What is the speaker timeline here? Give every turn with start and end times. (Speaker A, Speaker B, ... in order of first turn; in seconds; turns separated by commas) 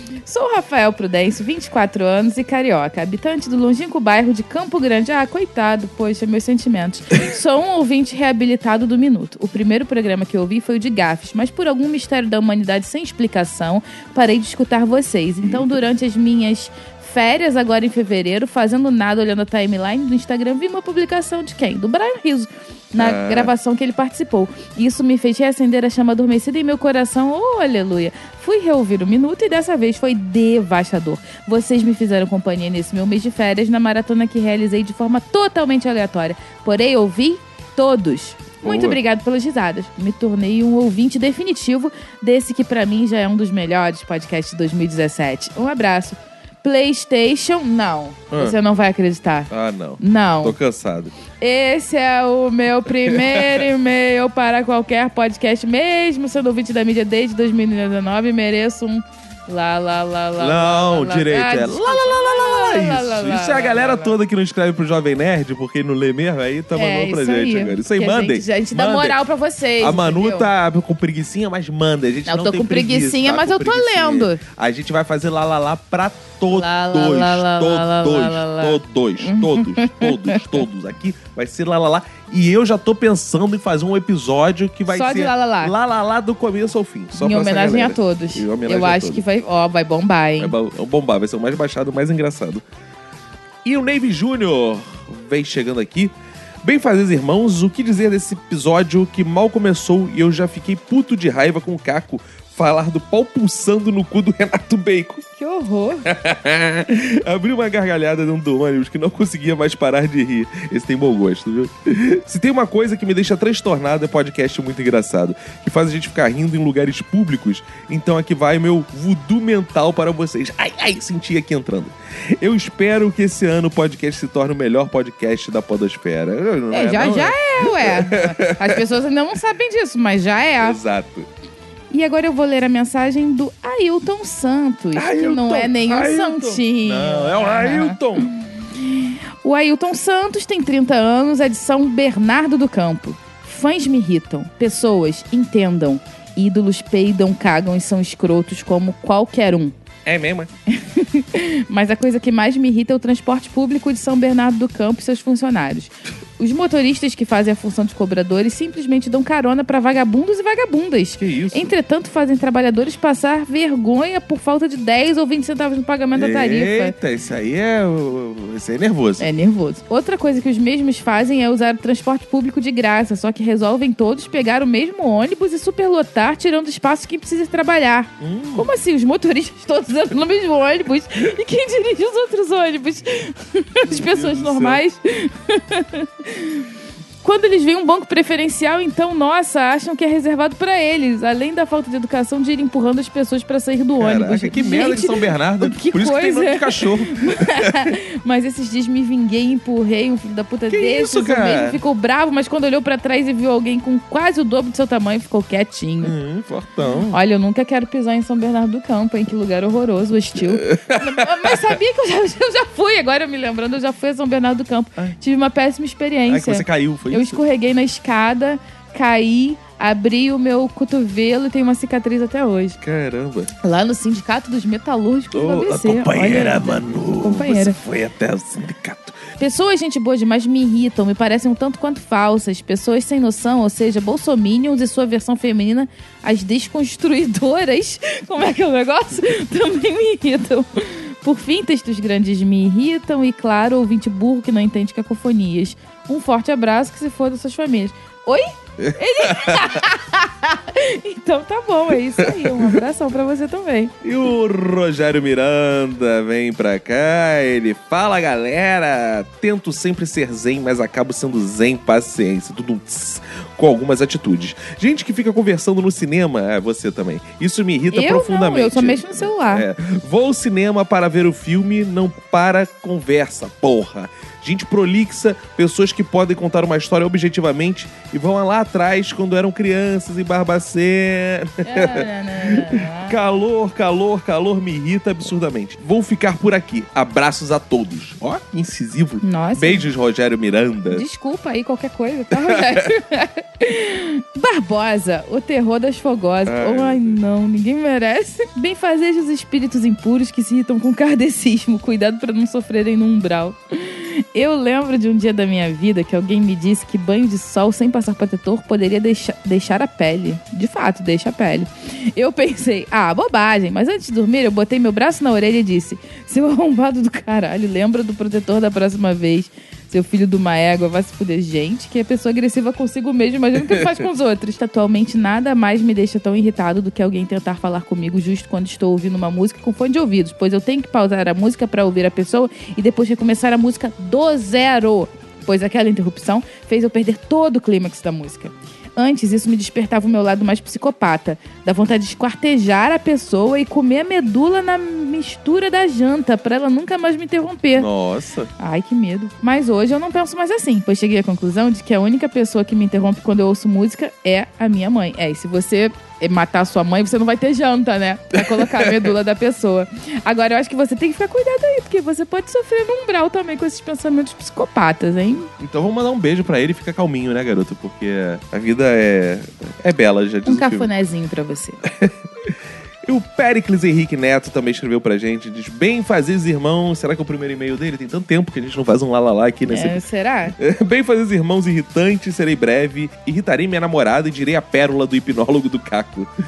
Speaker A: 0.2-49.5, Speaker B: 15.4-15.8, Speaker B: 23.0-23.5, Speaker B: 38.6-39.0, Speaker B: 48.3-48.6, Speaker B: 49.5-51.1, Speaker A: 50.0-50.6, Speaker A: 51.4-64.2, Speaker B: 53.1-53.6, Speaker B: 60.4-69.2, Speaker A: 66.7-70.5, Speaker B: 69.8-89.2, Speaker A: 72.3-74.4, Speaker A: 76.5-80.6, Speaker A: 84.9-85.7, Speaker A: 87.1-90.5, Speaker B: 90.4-92.6, Speaker B: 93.7-96.1, Speaker B: 96.6-105.2, Speaker A: 105.4-106.0, Speaker B: 106.1-128.8, Speaker A: 126.7-130.8, Speaker B: 130.6-131.3, Speaker A: 131.9-138.3, Speaker B: 134.9-138.3, Speaker A: 138.9-149.7, Speaker B: 150.1-150.5, Speaker A: 150.7-166.9, Speaker B: 161.2-161.7, Speaker B: 166.2-169.3, Speaker A: 169.2-186.7, Speaker B: 178.2-178.7, Speaker B: 183.9-184.8, Speaker A: 187.2-206.1, Speaker B: 194.0-197.9, Speaker B: 200.7-201.8, Speaker B: 206.0-207.2, Speaker A: 207.1-222.8, Speaker B: 210.5-211.6, Speaker B: 216.3-217.4, Speaker B: 222.8-223.5, Speaker A: 223.6-227.8, Speaker B: 225.3-229.2, Speaker A: 229.4-248.4, Speaker B: 248.8-249.8, Speaker A: 248.9-253.9, Speaker B: 252.2-252.7, Speaker B: 254.0-291.0, Speaker A: 267.9-269.7, Speaker A: 281.7-283.2, Speaker A: 289.2-289.9, Speaker A: 290.9-347.9, Speaker B: 292.4-292.8, Speaker B: 296.5-297.2, Speaker B: 347.8-348.5, Speaker A: 348.6-365.5, Speaker B: 358.5-359.1, Speaker B: 365.6-370.9, Speaker A: 370.4-371.8, Speaker B: 371.9-372.1, Speaker B: 373.1-380.0, Speaker A: 379.7-380.6, Speaker B: 380.6-386.3